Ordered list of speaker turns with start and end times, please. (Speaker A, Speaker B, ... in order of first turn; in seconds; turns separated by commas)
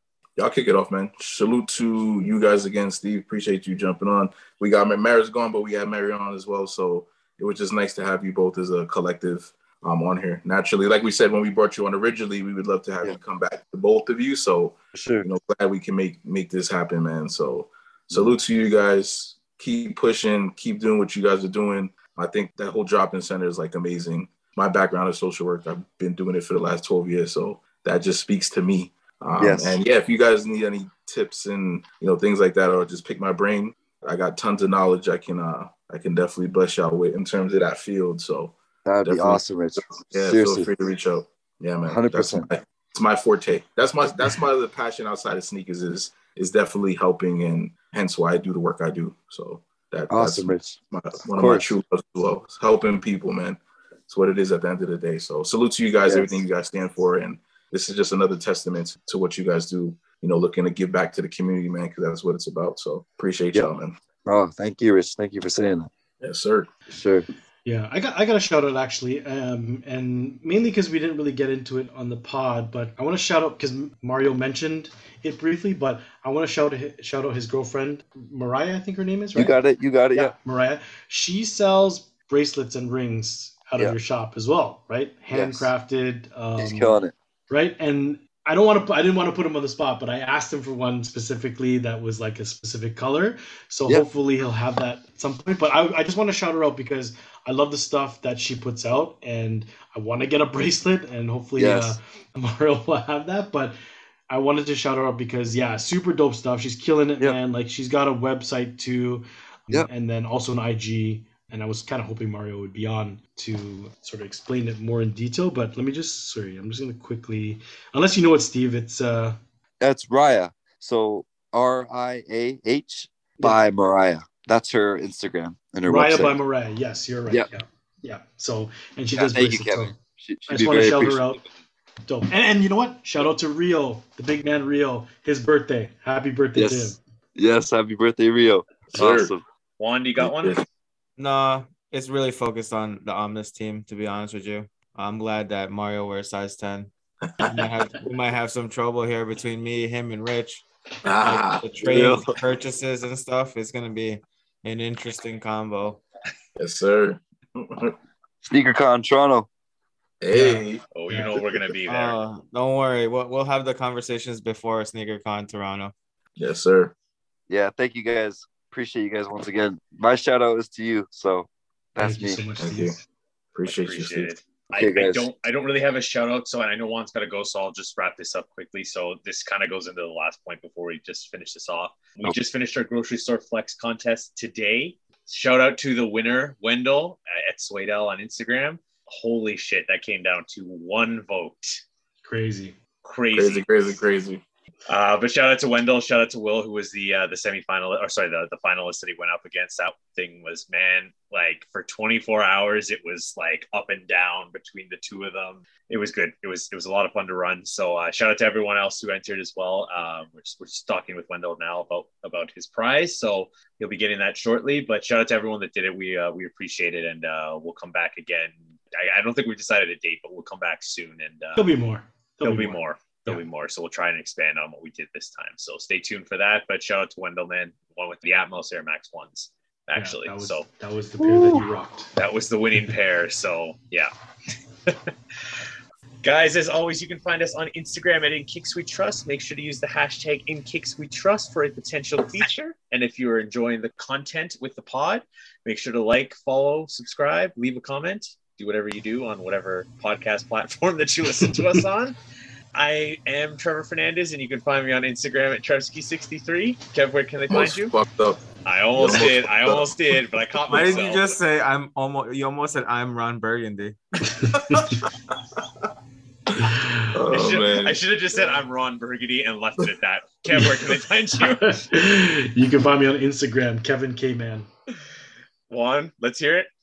Speaker A: 0.4-64.0, Speaker B: 14.9-15.3, Speaker B: 29.4-29.8, Speaker B: 38.9-40.7, Speaker B: 41.9-42.5, Speaker B: 50.1-50.8, Speaker B: 51.4-51.7, Speaker B: 56.0-56.4, Speaker B: 64.2-65.9, Speaker A: 66.2-66.8, Speaker B: 66.9-67.2, Speaker C: 67.7-79.6, Speaker B: 79.3-80.3, Speaker C: 80.1-87.0, Speaker B: 85.3-85.7, Speaker B: 86.6-87.1, Speaker C: 87.5-103.8, Speaker B: 101.6-102.0, Speaker C: 104.3-119.4, Speaker B: 119.8-126.4, Speaker C: 125.8-130.0, Speaker B: 129.1-131.2, Speaker C: 130.5-131.4, Speaker C: 132.1-137.0, Speaker B: 136.6-139.4, Speaker A: 138.9-139.3, Speaker D: 139.8-140.6, Speaker A: 140.2-140.7, Speaker E: 141.2-146.9, Speaker A: 147.3-147.6, Speaker E: 147.5-150.7, Speaker A: 151.0-152.3, Speaker E: 151.2-156.0, Speaker B: 151.9-152.2, Speaker A: 156.6-158.0, Speaker B: 158.4-159.5, Speaker A: 160.2-160.8, Speaker C: 160.3-161.3, Speaker D: 160.9-162.2, Speaker E: 161.9-165.9, Speaker A: 166.4-166.9, Speaker B: 167.5-172.5, Speaker C: 172.0-173.0, Speaker A: 172.6-173.0, Speaker A: 173.5-174.3, Speaker D: 173.7-191.8, Speaker B: 174.7-175.3, Speaker C: 192.2-192.8, Speaker D: 193.0-193.7, Speaker A: 193.3-194.4, Speaker D: 194.9-221.7, Speaker C: 221.6-223.4, Speaker D: 222.4-230.7, Speaker C: 229.9-232.1, Speaker B: 231.2-231.7, Speaker D: 232.2-234.1, Speaker D: 236.2-252.2, Speaker D: 252.8-257.9, Speaker A: 257.5-258.4, Speaker D: 258.6-261.4, Speaker A: 259.0-259.9, Speaker E: 260.7-264.0, Speaker C: 264.3-265.0, Speaker A: 264.7-265.1, Speaker A: 266.6-268.0, Speaker C: 266.6-267.2, Speaker D: 267.3-271.8, Speaker C: 270.5-270.8, Speaker C: 271.4-274.7, Speaker D: 275.7-276.7